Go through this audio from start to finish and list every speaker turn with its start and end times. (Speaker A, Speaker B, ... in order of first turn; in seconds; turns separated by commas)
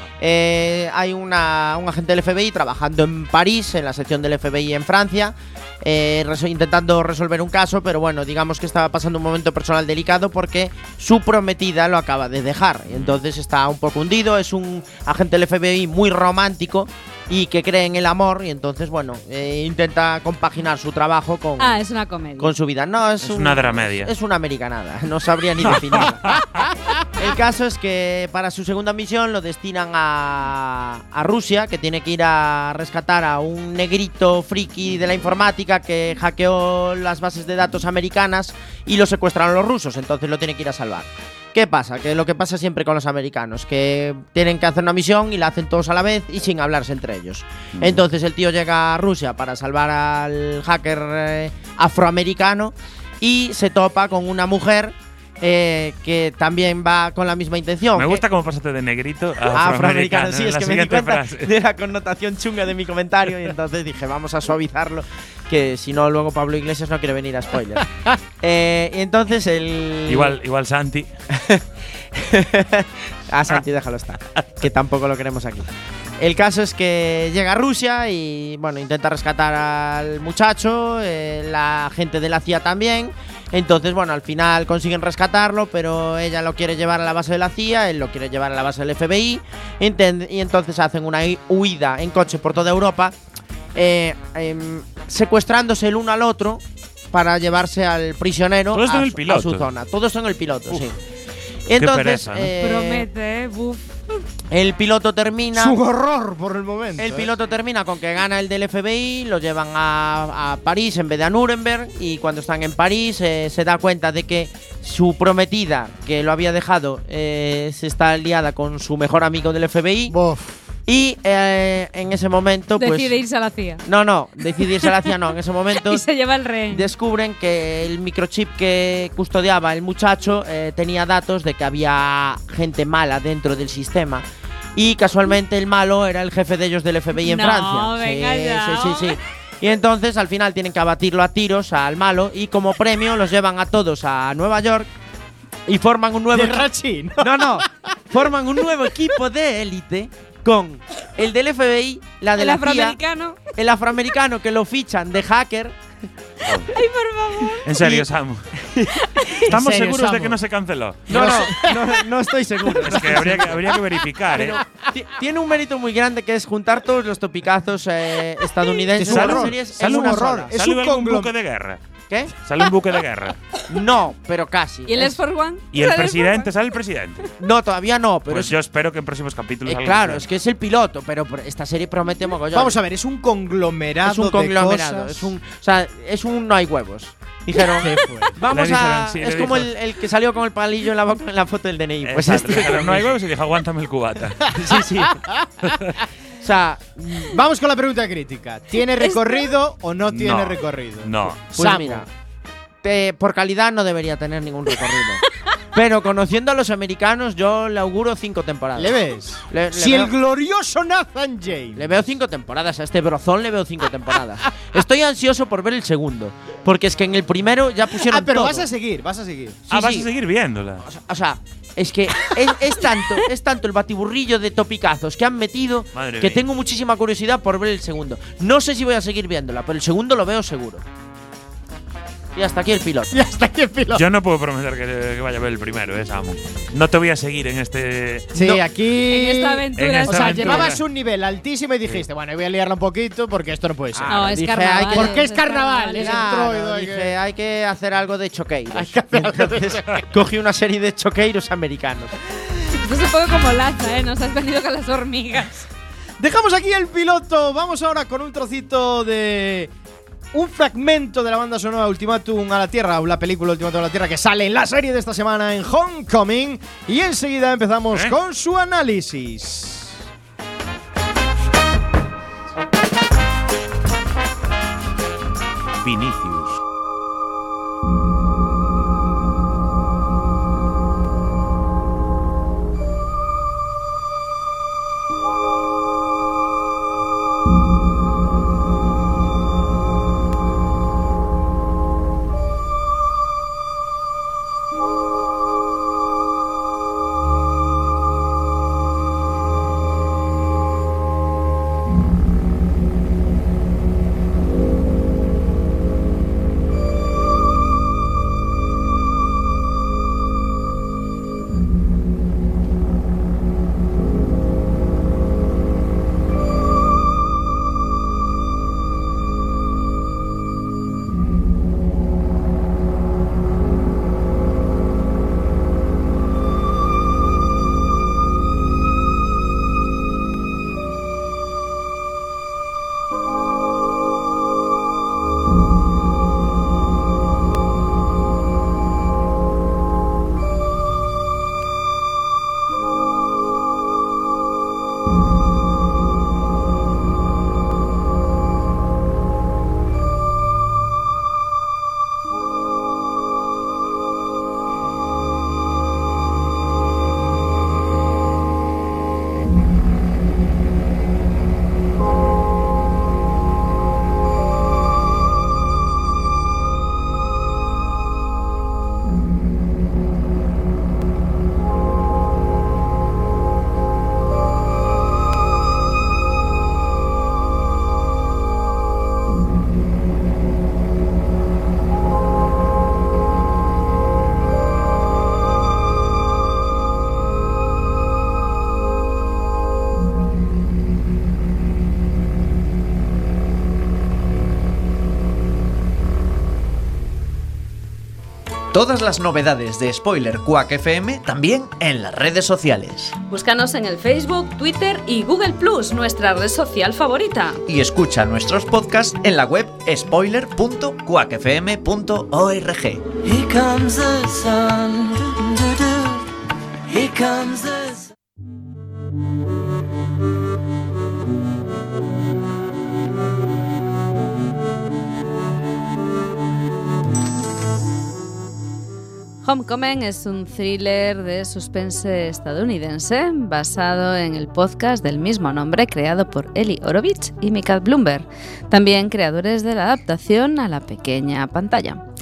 Speaker A: 0.2-21.8, Speaker B: 12.9-13.2, Speaker C: 21.6-22.5, Speaker A: 22.4-26.4, Speaker B: 23.2-24.1, Speaker B: 25.7-26.4, Speaker A: 27.1-58.2, Speaker B: 47.8-48.0, Speaker B: 58.0-61.5, Speaker A: 59.5-70.3, Speaker B: 70.1-71.1, Speaker A: 71.3-75.7, Speaker A: 76.2-93.2, Speaker A: 93.8-101.0, Speaker B: 98.7-99.7, Speaker A: 101.7-103.1, Speaker B: 101.8-102.5, Speaker C: 102.6-103.9, Speaker A: 104.5-105.8, Speaker D: 105.5-107.3, Speaker A: 107.0-120.2, Speaker D: 120.1-120.5, Speaker A: 120.9-123.2, Speaker C: 122.8-123.8, Speaker A: 123.8-126.0, Speaker C: 125.8-126.9, Speaker A: 126.7-134.2, Speaker A: 134.8-144.9, Speaker C: 137.2-139.2, Speaker A: 145.7-146.7, Speaker D: 146.3-147.7, Speaker A: 147.2-153.0, Speaker C: 152.4-153.4, Speaker A: 153.6-155.8, Speaker B: 156.5-156.7, Speaker C: 156.7-157.7, Speaker B: 157.6-158.5, Speaker A: 158.6-158.9, Speaker B: 159.4-161.3, Speaker D: 159.5-160.4, Speaker D: 161.1-162.0, Speaker A: 161.1-163.8, Speaker D: 162.8-163.5, Speaker B: 162.8-164.6, Speaker A: 164.3-170.5, Speaker D: 168.9-171.3, Speaker B: 169.0-171.8, Speaker B: 172.4-173.4, Speaker A: 173.7-175.2, Speaker C: 174.9-176.5, Speaker B: 175.7-177.3, Speaker A: 177.4-178.6, Speaker B: 178.3-180.3, Speaker A: 179.7-182.8, Speaker D: 182.5-185.3, Speaker A: 184.1-193.1, Speaker D: 187.8-188.4, Speaker B: 188.5-189.7, Speaker B: 192.0-194.5, Speaker A: 194.5-195.2, Speaker D: 195.0-195.7, Speaker A: 196.4-197.3, Speaker D: 197.3-202.1, Speaker C: 199.0-199.4, Speaker B: 200.1-201.4, Speaker A: 201.6-202.1, Speaker A: 202.8-209.0, Speaker D: 208.8-211.9, Speaker A: 209.5-210.1, Speaker A: 211.8-218.7, Speaker D: 217.9-219.9, Speaker B: 219.7-220.8, Speaker A: 219.8-220.0, Speaker A: 220.8-230.8, Speaker B: 225.9-226.4, Speaker A: 232.3-233.1, Speaker D: 233.1-234.1, Speaker B: 233.9-238.3, Speaker D: 238.3-244.3, Speaker C: 239.0-240.7, Speaker B: 239.8-240.8, Speaker A: 243.9-245.2, Speaker C: 244.1-246.2, Speaker D: 244.9-247.2, Speaker A: 245.9-252.2, Speaker D: 248.7-250.1, Speaker C: 252.7-255.7, Speaker D: 256.2-259.7, Speaker D: 260.3-270.0, Speaker B: 275.8-276.6, Speaker E: 398.7-403.2, Speaker F: 403.3-407.6, Speaker E: 407.7-413.1, Speaker G: 413.3-415.5, Speaker G: 416.9-417.9, Speaker F: 429.4-442.0